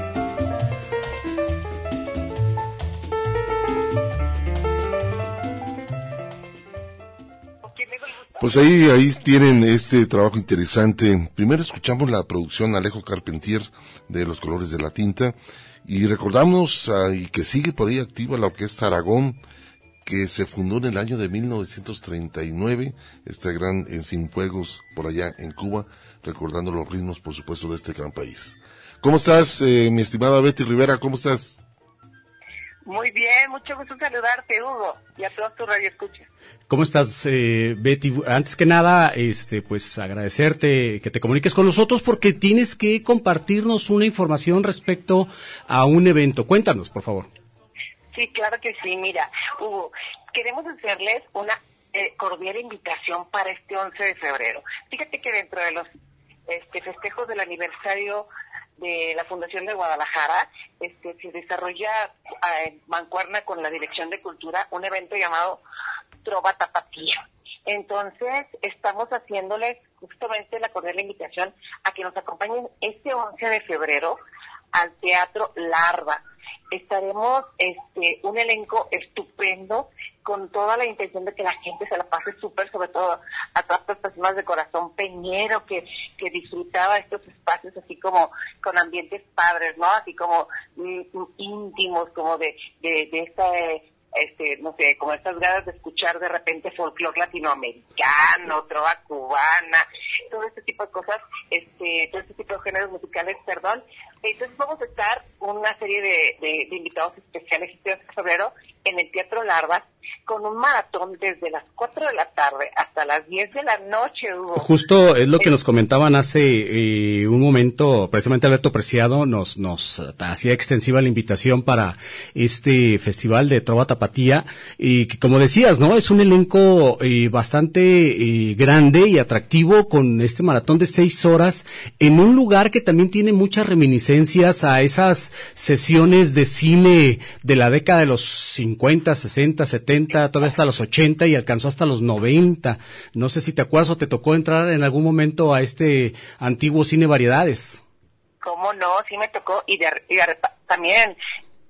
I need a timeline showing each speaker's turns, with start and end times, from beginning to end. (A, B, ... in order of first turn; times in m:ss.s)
0:07.6-0:08.7 A
0:08.4-0:19.4 B
0:20.0-0:31.6 B
0:32.9-0:36.3 A
0:36.7-0:47.3 C
0:48.1-0:55.9 A
0:56.5-0:58.3 A
0:58.8-1:05.6 A
1:06.2-1:14.2 A
1:14.7-1:16.2 A
1:16.7-1:54.7 A
1:54.6-2:27.8 C
2:28.4-2:31.2 A